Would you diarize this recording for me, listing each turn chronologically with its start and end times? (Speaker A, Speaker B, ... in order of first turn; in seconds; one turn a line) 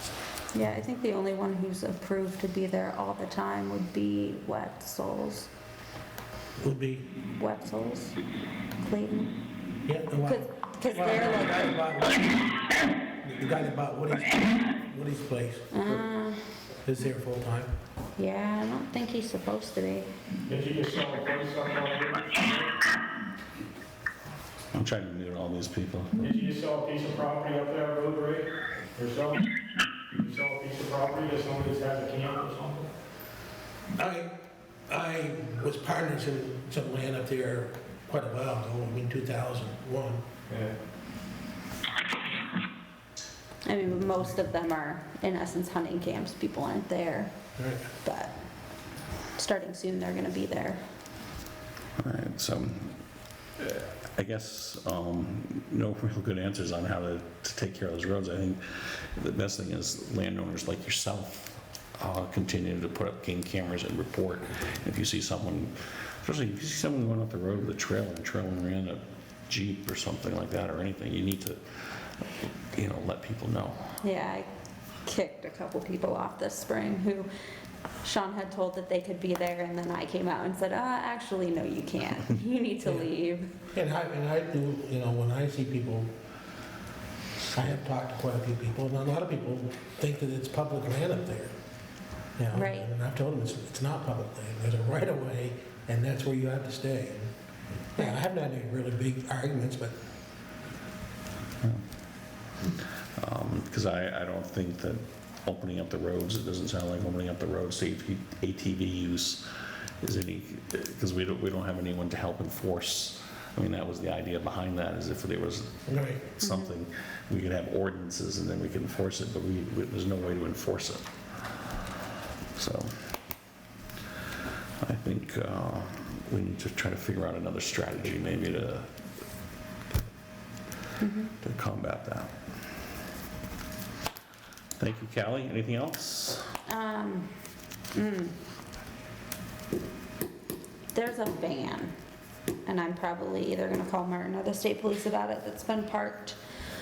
Speaker A: 0.5-5.5
Speaker B: 6.6-7.1
Speaker A: 7.3-8.2
Speaker A: 8.8-9.3
Speaker B: 9.9-12.6
Speaker A: 10.2-11.7
Speaker B: 13.2-15.7
Speaker A: 15.7-16.4
Speaker B: 16.8-17.8
Speaker A: 18.2-20.1
Speaker C: 20.5-22.8
Speaker D: 24.7-26.2
Speaker C: 26.2-29.5
Speaker C: 30.1-32.9
Speaker B: 33.9-34.3
Speaker B: 34.9-40.3
Speaker C: 40.5-40.8
Speaker A: 43.7-47.3
Speaker B: 47.6-47.9
Speaker A: 48.0-48.3
Speaker A: 49.4-50.8
Speaker D: 52.0-53.0
Speaker D: 53.6-72.1
Speaker D: 72.8-74.0
Speaker A: 74.0-74.5
Speaker A: 75.0-77.3
Speaker A: 78.0-83.5
Speaker B: 82.8-83.1
Speaker B: 83.7-86.1
Speaker B: 87.5-91.5
Speaker B: 92.4-97.3
Speaker A: 92.5-92.9
Speaker B: 98.0-100.0
Speaker D: 103.2-109.5
Speaker D: 110.0-121.1
Speaker B: 115.9-116.2
Speaker A: 116.4-116.7
Speaker D: 122.6-123.1
Speaker D: 124.8-128.9
Speaker A: 131.0-131.3
Speaker D: 131.4-132.3
Speaker D: 134.8-136.6
Speaker A: 136.7-137.3
Speaker A: 137.9-138.3
Speaker A: 140.9-141.9
Speaker A: 142.7-146.4